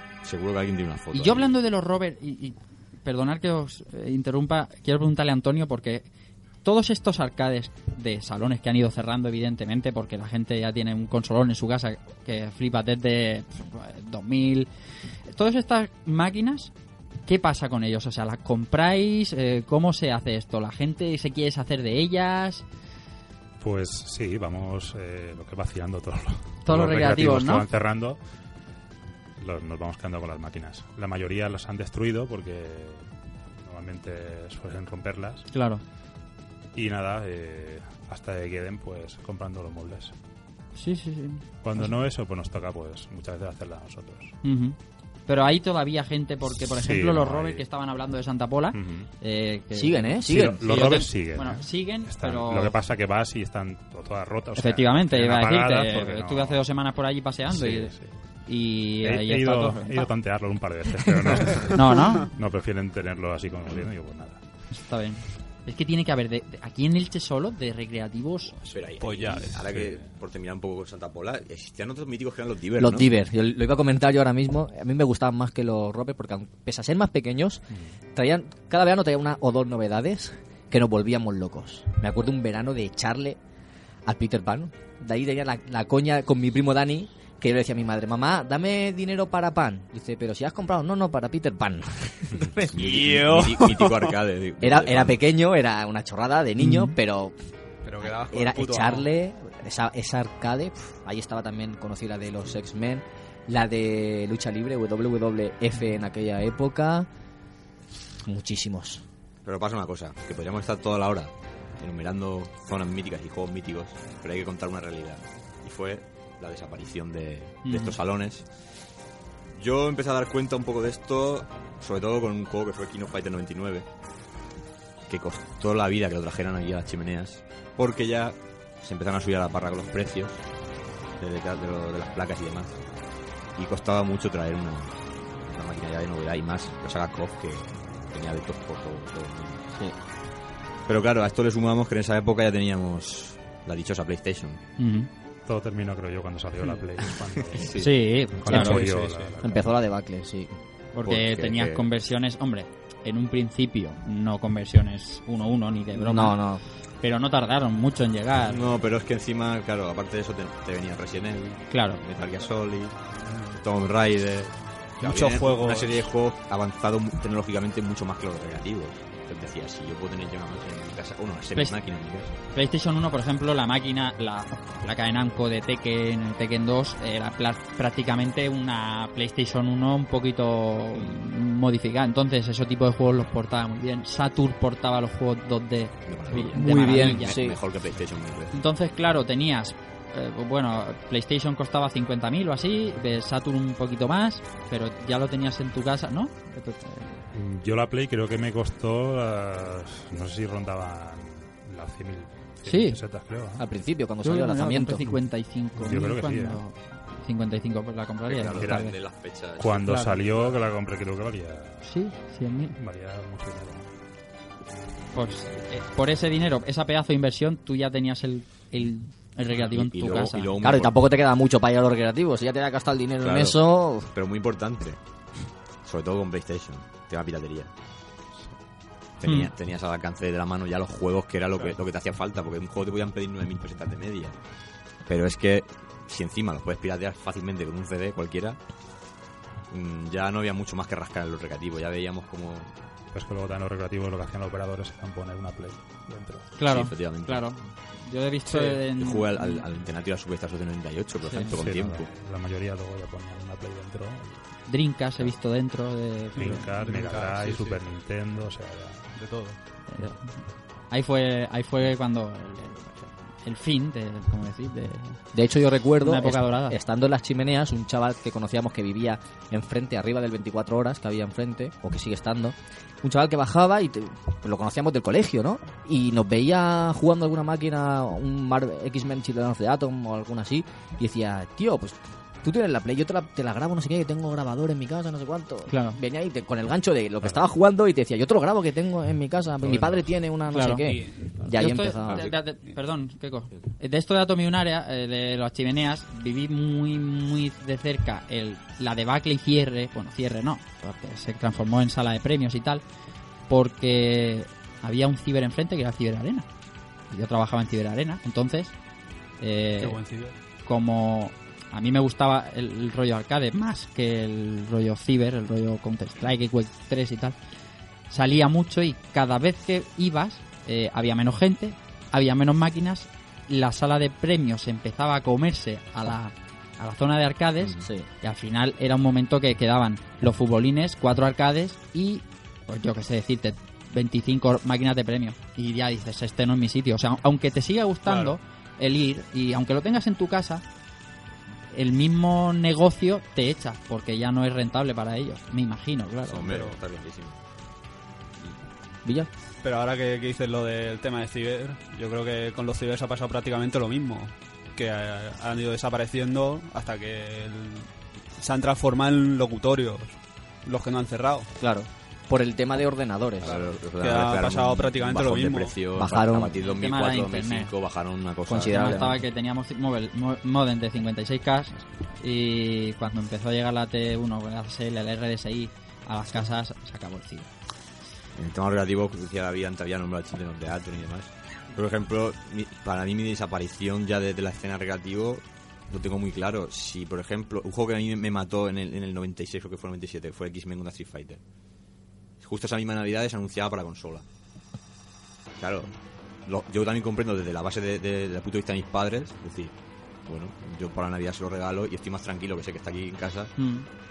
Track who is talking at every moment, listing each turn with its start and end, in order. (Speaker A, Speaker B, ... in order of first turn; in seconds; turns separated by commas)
Speaker A: 0.2-1.6, Speaker B: 1.1-6.0, Speaker B: 6.6-14.7, Speaker B: 15.3-16.7, Speaker B: 17.2-22.6, Speaker C: 23.6-28.2, Speaker B: 26.6-27.6, Speaker C: 29.4-33.1, Speaker C: 33.6-35.5, Speaker B: 35.5-35.8, Speaker C: 36.7-40.1, Speaker B: 40.8-41.9, Speaker C: 41.6-44.3, Speaker B: 44.4-44.8, Speaker B: 45.3-52.7, Speaker C: 46.7-47.6, Speaker C: 48.7-49.1, Speaker D: 49.7-50.9, Speaker C: 50.2-56.6, Speaker B: 54.5-57.9, Speaker C: 57.5-58.1, Speaker B: 58.5-60.1, Speaker C: 59.0-64.4, Speaker B: 61.5-62.3, Speaker B: 64.7-68.6, Speaker A: 68.7-73.1, Speaker E: 69.0-69.7, Speaker C: 69.6-70.1, Speaker D: 72.8-77.6, Speaker D: 78.1-83.4, Speaker D: 84.0-92.9, Speaker A: 92.6-95.2, Speaker E: 92.7-94.2, Speaker D: 94.6-97.3, Speaker B: 96.6-97.0, Speaker E: 97.8-99.1, Speaker D: 98.0-107.1, Speaker D: 108.2-109.0, Speaker A: 109.4-118.5, Speaker B: 117.6-118.0, Speaker A: 119.5-123.9, Speaker A: 125.1-130.4, Speaker A: 131.2-132.8, Speaker A: 133.6-139.7, Speaker A: 140.9-144.6, Speaker B: 144.8-145.1, Speaker C: 145.4-149.8, Speaker A: 147.2-147.9, Speaker B: 147.7-148.8, Speaker D: 147.8-148.9, Speaker E: 148.5-149.4, Speaker D: 149.4-150.5, Speaker B: 150.9-156.4, Speaker A: 151.0-151.9, Speaker D: 155.9-156.6, Speaker B: 157.0-158.8, Speaker A: 158.4-163.0, Speaker B: 161.7-162.0, Speaker E: 163.2-163.6, Speaker A: 163.6-172.3, Speaker E: 165.0-166.1, Speaker B: 172.5-187.3, Speaker A: 186.1-188.6, Speaker D: 186.3-187.6, Speaker B: 188.5-197.2, Speaker C: 197.3-203.6, Speaker B: 202.6-203.0, Speaker D: 203.6-205.1, Speaker B: 204.2-208.9, Speaker C: 205.1-206.6, Speaker A: 208.2-210.6, Speaker C: 208.5-208.9, Speaker C: 209.6-211.9, Speaker B: 209.8-210.2, Speaker B: 211.8-212.8, Speaker C: 212.8-213.9, Speaker B: 215.1-220.6, Speaker A: 219.6-220.9, Speaker D: 220.6-224.1, Speaker A: 223.2-225.0, Speaker A: 225.8-227.7, Speaker A: 229.2-234.3, Speaker A: 235.1-238.6, Speaker A: 239.7-242.7, Speaker C: 243.1-246.5, Speaker B: 246.6-249.6, Speaker A: 246.6-247.5, Speaker A: 248.6-252.1, Speaker B: 251.2-251.6, Speaker C: 251.5-254.4, Speaker B: 254.7-256.7, Speaker E: 256.3-257.8, Speaker C: 256.3-259.1, Speaker E: 259.1-259.6, Speaker B: 259.9-260.4, Speaker B: 260.9-265.2, Speaker D: 265.3-292.3, Speaker B: 266.0-266.8, Speaker B: 285.7-286.0, Speaker C: 289.6-290.1, Speaker B: 290.5-290.9, Speaker E: 290.8-291.4, Speaker B: 291.4-302.8, Speaker A: 292.0-292.3, Speaker B: 303.5-306.4, Speaker B: 307.1-308.7, Speaker B: 309.4-310.0, Speaker E: 309.8-310.4, Speaker B: 310.6-317.4, Speaker B: 318.1-340.6, Speaker D: 327.8-328.1, Speaker E: 338.1-338.4, Speaker B: 341.7-346.5, Speaker A: 346.3-347.4, Speaker E: 346.4-346.8, Speaker E: 349.6-361.5, Speaker D: 361.6-363.6, Speaker A: 363.4-369.1, Speaker E: 363.5-365.9, Speaker D: 365.9-366.6, Speaker B: 366.6-367.7, Speaker D: 368.4-369.2, Speaker B: 368.7-377.5, Speaker A: 378.3-391.4, Speaker A: 392.4-394.2, Speaker A: 395.6-395.9, Speaker A: 396.4-399.7, Speaker A: 400.2-403.6, Speaker B: 403.6-403.9